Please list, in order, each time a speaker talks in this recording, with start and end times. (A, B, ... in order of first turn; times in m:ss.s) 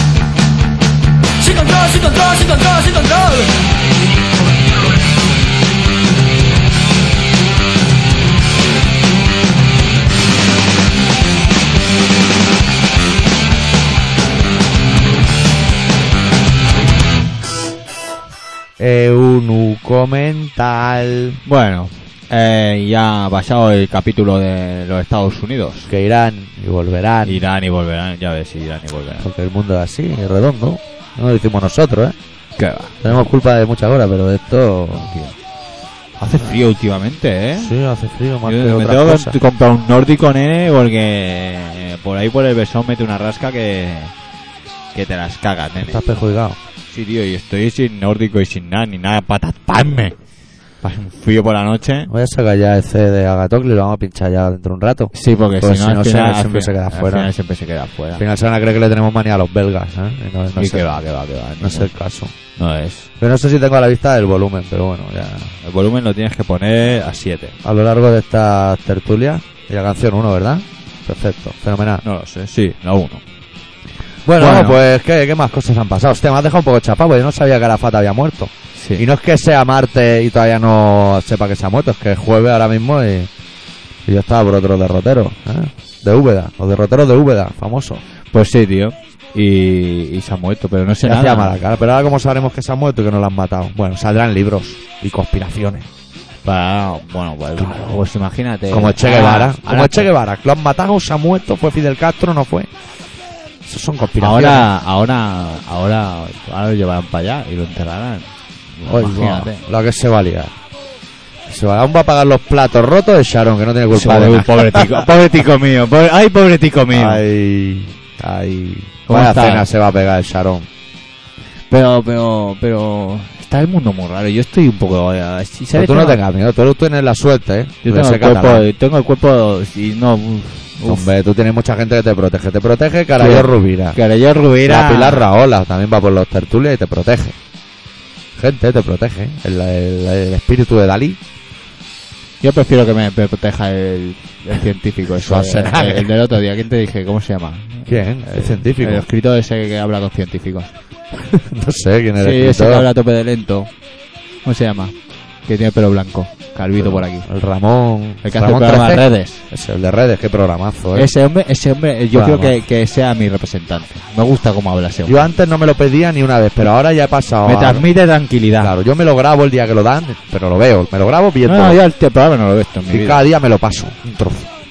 0:01.4-0:03.6 A
0:18.8-0:21.4 B
0:21.4-0:25.9 C
0:25.9-0:27.4 B
0:27.2-0:29.2 C
0:29.2-0:32.2 B
0:32.6-0:33.2 C
0:33.0-0:35.1 B
0:34.9-0:35.4 C
0:36.2-0:37.7 C
0:37.6-0:39.4 B
0:38.4-0:44.1 C
0:44.9-0:46.0 C
0:45.8-0:46.6 B
0:46.9-0:50.2 C
0:50.8-0:52.1 C
0:52.1-0:57.3 B
0:55.1-0:58.2 C
0:58.2-1:01.0 B
1:00.6-1:01.9 C
1:01.6-1:02.3 B
1:02.6-1:03.1 C
1:03.2-1:05.5 B
1:05.6-1:07.6 C
1:07.6-1:12.0 B
1:12.0-1:13.2 C
1:14.2-1:23.3 B
1:14.4-1:14.8 C
1:18.8-1:19.0 C
1:24.0-1:28.0 B
1:28.3-1:31.6 C
1:31.0-1:35.9 B
1:36.4-1:40.1 C
1:37.6-1:38.0 B
1:38.7-1:42.7 B
1:43.6-1:44.7 B
1:44.2-1:49.6 C
1:48.8-1:50.5 B
1:51.5-1:55.1 B
1:53.9-1:57.2 C
1:56.9-2:00.7 B
1:59.1-1:59.6 C
2:01.7-2:06.2 C
2:05.7-2:08.6 B
2:07.8-2:11.1 C
2:10.8-2:14.0 B
2:13.2-2:15.3 C
2:14.6-2:17.4 B
2:18.4-2:21.2 B
2:22.4-2:30.7 C
2:25.2-2:26.1 B
2:27.8-2:29.0 B
2:31.1-2:32.9 B
2:32.2-2:33.7 C
2:34.4-2:34.9 C
2:35.4-2:37.3 C
2:36.8-2:41.1 B
2:38.2-2:39.4 C
2:40.9-2:45.3 C
2:42.1-2:42.6 B
2:45.1-2:47.8 B
2:47.4-2:48.7 C
2:48.6-2:51.8 B
2:51.4-2:53.2 C
2:52.9-2:54.5 B